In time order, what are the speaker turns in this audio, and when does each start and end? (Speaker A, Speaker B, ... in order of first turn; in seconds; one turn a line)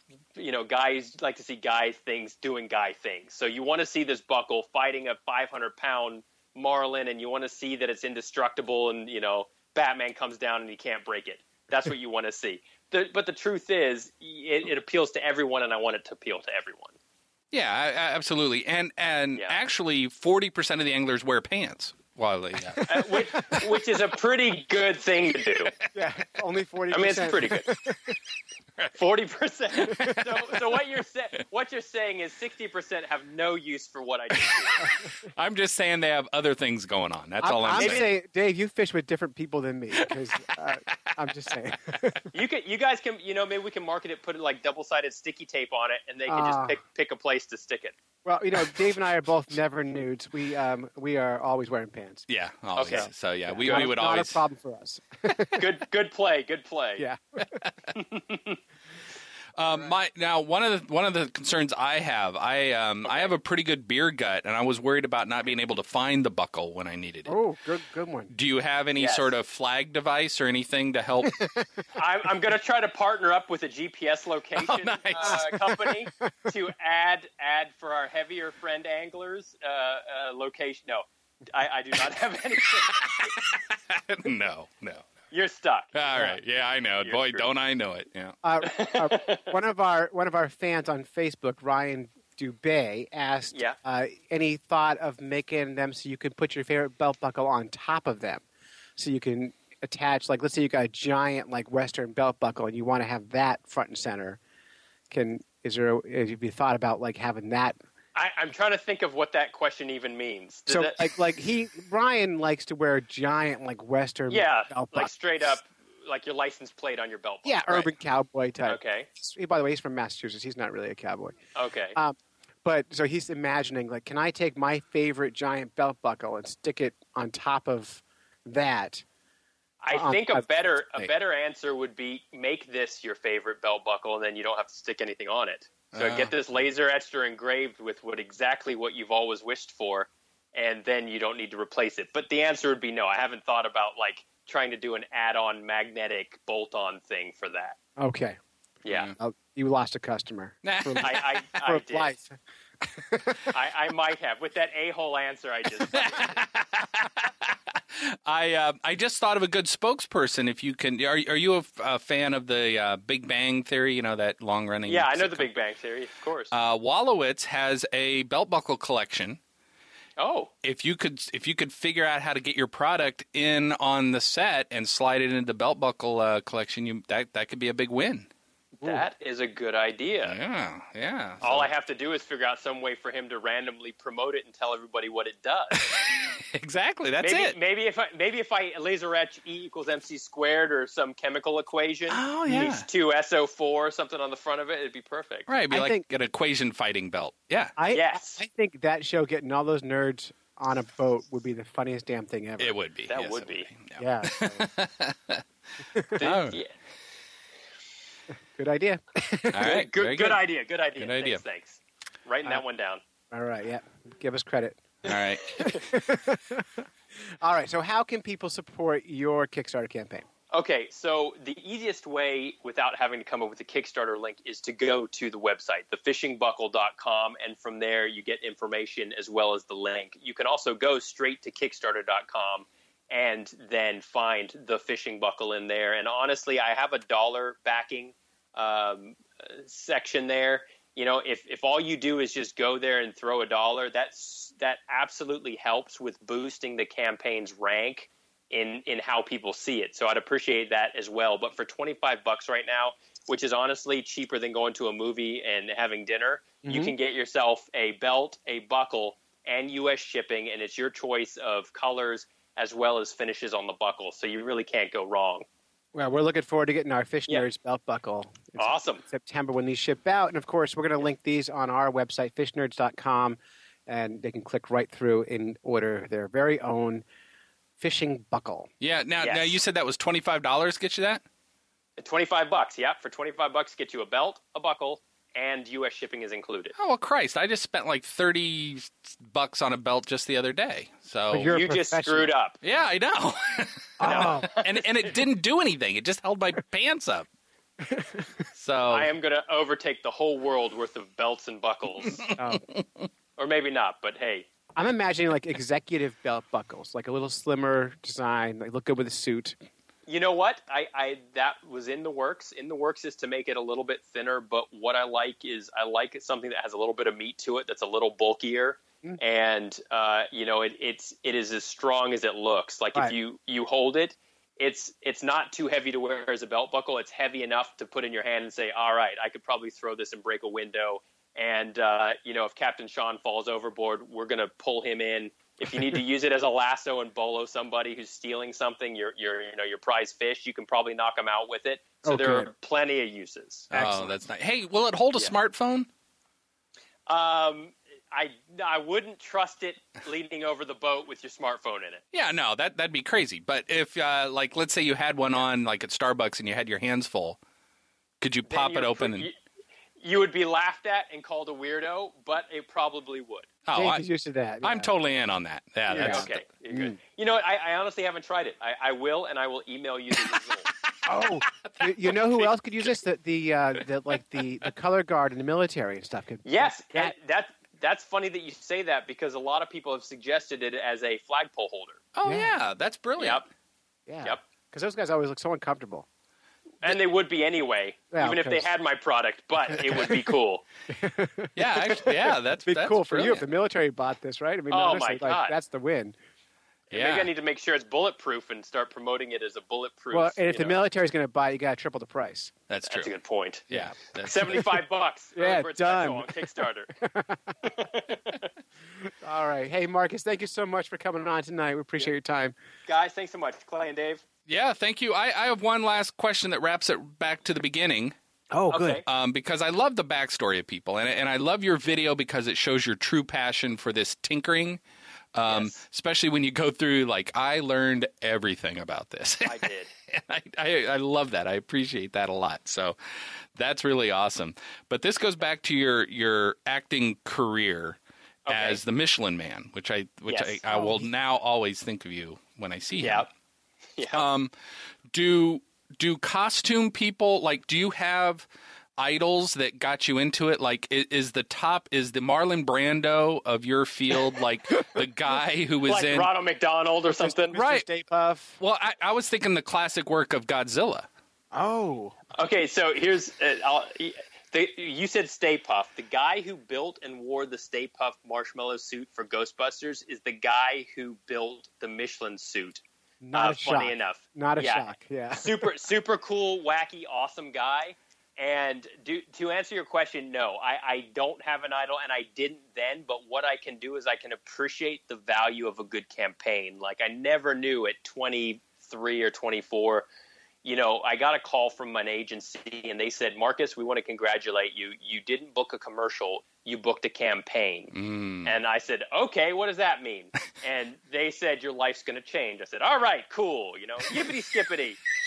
Speaker A: 0.3-16.9
Speaker B: 17.5-22.9
Speaker C: 22.8-23.6
Speaker A: 22.9-25.7
Speaker C: 25.9-28.2
Speaker A: 26.9-27.7
Speaker A: 28.9-34.8
Speaker B: 29.9-30.2
Speaker B: 35.4-38.1
Speaker C: 37.4-42.3
Speaker A: 37.7-38.0
Speaker A: 42.3-47.9
Speaker C: 46.3-46.8
Speaker C: 48.2-52.2
Speaker B: 52.3-54.4
Speaker A: 52.8-53.1
Speaker C: 52.9-55.7
Speaker A: 53.6-53.9
Speaker A: 55.6-57.1
Speaker C: 57.0-57.5
Speaker A: 58.0-58.6
Speaker B: 59.6-67.4
Speaker A: 63.0-63.4
Speaker C: 67.3-68.3
Speaker B: 68.3-71.4
Speaker A: 69.0-69.3
Speaker C: 71.2-71.7
Speaker A: 72.0-83.3
Speaker B: 74.6-75.7
Speaker C: 75.2-75.5
Speaker B: 82.9-85.0
Speaker A: 85.3-86.3
Speaker B: 85.9-88.4
Speaker A: 87.0-87.5
Speaker C: 88.4-98.5
Speaker A: 88.6-89.5
Speaker A: 93.5-93.8
Speaker C: 99.0-104.4
Speaker C: 105.1-107.8
Speaker A: 108.2-111.1
Speaker C: 110.7-115.1
Speaker A: 114.3-117.9
Speaker C: 117.4-121.4
Speaker A: 118.7-119.1
Speaker A: 121.5-122.0
Speaker C: 122.0-129.0
Speaker A: 129.8-147.8
Speaker C: 129.9-131.1
Speaker B: 135.9-136.3
Speaker C: 148.0-148.4
Speaker A: 148.8-149.1
Speaker B: 148.9-149.2
Speaker C: 149.2-153.4
Speaker B: 150.6-151.2
Speaker A: 151.0-152.2
Speaker A: 153.5-156.3
Speaker B: 155.9-165.5
Speaker A: 164.9-166.5
Speaker B: 166.5-169.4
Speaker A: 170.2-170.5
Speaker B: 170.6-178.3
Speaker C: 178.8-179.1
Speaker A: 178.8-180.4
Speaker B: 180.2-181.7
Speaker A: 181.4-185.8
Speaker B: 185.9-187.6
Speaker A: 187.2-195.5
Speaker B: 192.1-192.9
Speaker B: 195.5-197.7
Speaker C: 195.7-196.0
Speaker C: 197.8-202.8
Speaker A: 197.9-198.4
Speaker B: 202.6-205.4
Speaker A: 203.1-203.7
Speaker C: 204.0-204.7
Speaker A: 206.2-206.7
Speaker B: 206.2-206.6
Speaker C: 208.6-209.7
Speaker B: 209.5-210.4
Speaker A: 209.6-213.0
Speaker B: 211.0-211.4
Speaker C: 213.3-214.8
Speaker B: 215.1-215.7
Speaker C: 215.7-216.8
Speaker C: 217.4-220.3
Speaker A: 220.5-265.5
Speaker C: 256.6-256.9
Speaker C: 265.9-277.1
Speaker A: 268.6-269.0
Speaker C: 277.8-278.7
Speaker B: 278.8-281.2
Speaker A: 279.2-279.6
Speaker A: 282.0-286.7
Speaker B: 286.8-291.5
Speaker C: 291.3-292.3
Speaker A: 291.4-292.6
Speaker B: 292.6-297.3
Speaker C: 294.0-294.5
Speaker A: 294.0-294.9
Speaker C: 297.9-298.3
Speaker B: 298.6-299.1
Speaker A: 298.9-302.2
Speaker C: 302.4-302.6
Speaker A: 303.4-304.5
Speaker C: 304.8-309.6
Speaker A: 310.1-343.7
Speaker C: 342.0-342.5
Speaker B: 343.7-345.9
Speaker C: 343.7-344.1
Speaker A: 347.1-352.0
Speaker B: 352.1-357.4
Speaker B: 358.2-359.3
Speaker A: 358.5-359.3
Speaker A: 360.0-363.5
Speaker B: 363.7-364.1
Speaker C: 363.7-364.9
Speaker B: 364.6-366.4
Speaker A: 365.9-370.7
Speaker C: 365.9-367.0
Speaker C: 371.0-377.1
Speaker A: 376.4-382.0
Speaker B: 382.1-383.4
Speaker C: 382.2-382.6
Speaker A: 383.2-383.4
Speaker C: 384.1-386.1
Speaker A: 386.8-390.6
Speaker C: 388.1-388.7
Speaker C: 389.9-390.2
Speaker C: 390.9-396.2
Speaker B: 391.6-393.4
Speaker A: 394.7-395.6
Speaker B: 396.9-397.3
Speaker A: 396.9-400.8
Speaker C: 400.1-402.5
Speaker B: 402.7-403.1
Speaker A: 402.9-406.9
Speaker B: 403.7-404.8
Speaker C: 405.4-406.4
Speaker C: 407.0-407.5
Speaker A: 407.7-408.4
Speaker C: 409.2-412.6
Speaker A: 412.9-414.2
Speaker B: 414.5-418.1
Speaker C: 418.5-419.0
Speaker A: 418.7-419.1
Speaker B: 419.1-424.8
Speaker B: 425.4-433.0
Speaker A: 425.5-425.7
Speaker A: 429.4-429.9
Speaker B: 433.6-443.3
Speaker A: 438.5-438.8
Speaker A: 440.3-440.6
Speaker C: 440.7-441.1
Speaker A: 443.0-443.3
Speaker A: 444.0-444.2
Speaker B: 444.1-444.5
Speaker B: 445.1-448.5
Speaker B: 449.0-456.3
Speaker A: 455.9-457.6
Speaker C: 457.1-458.6
Speaker B: 457.5-457.9
Speaker B: 458.6-461.1
Speaker C: 461.5-462.2
Speaker A: 462.4-490.1
Speaker C: 473.2-475.7
Speaker A: 490.6-505.0
Speaker B: 497.9-498.6